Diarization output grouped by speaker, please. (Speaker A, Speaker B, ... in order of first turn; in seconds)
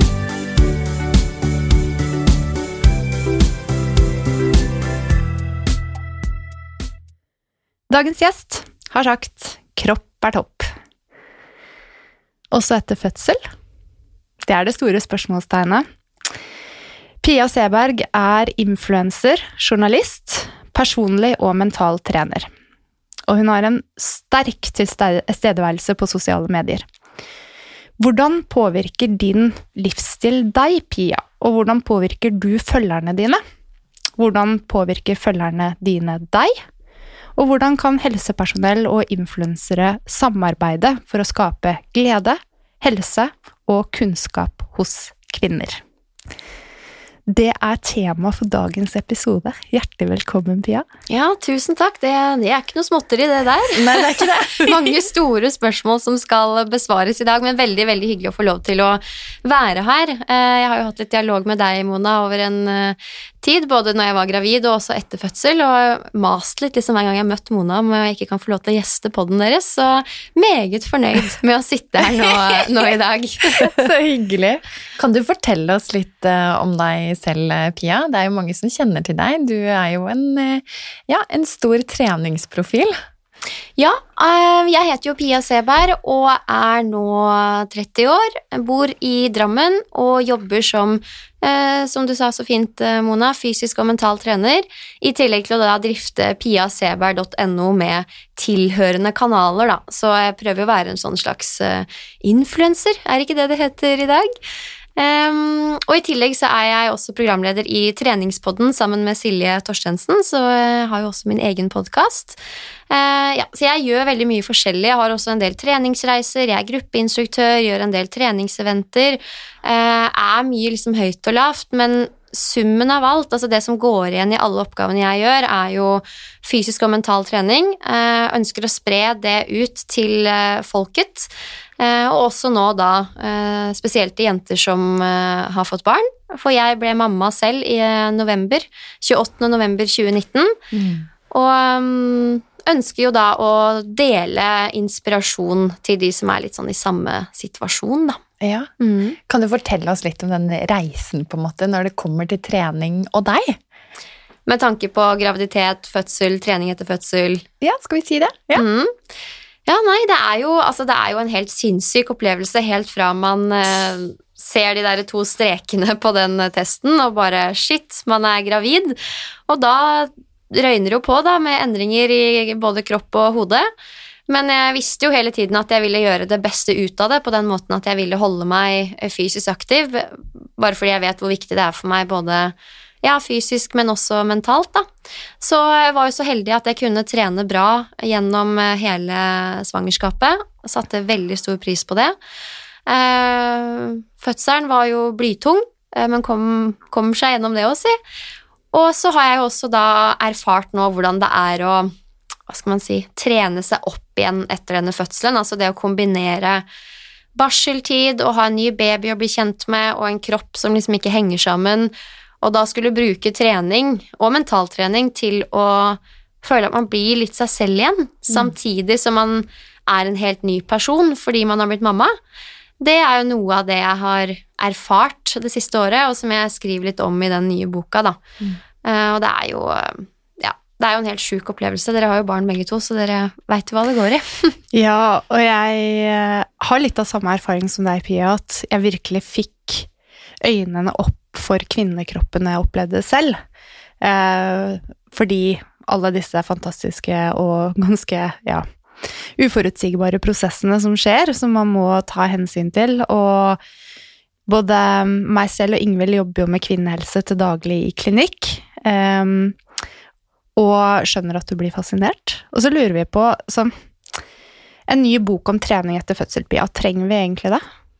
Speaker A: 7.9-10.7, 12.5-13.4, 14.5-15.8, 17.2-22.5, 23.3-26.9, 28.0-33.4, 34.2-36.6, 37.4-45.8, 47.3-50.9, 234.7-239.9, 240.4-243.4, 244.0-248.7, 249.4-253.6, 254.5-259.6, 260.6-263.7, 264.9-267.6
Speaker B: 51.1-73.8, 83.8-104.3, 105.0-140.6, 141.3-148.2, 148.8-149.2, 154.5-157.4, 158.6-158.9, 159.7-169.0, 169.5-173.7, 174.3-184.9, 185.4-192.2, 192.9-197.9, 198.7-201.9, 202.5-206.7, 207.3-222.2, 222.8-228.2, 228.8-234.6
Speaker C: 53.7-54.9, 73.5-83.0, 140.7-141.1, 148.4-148.7, 149.3-153.6, 157.6-158.7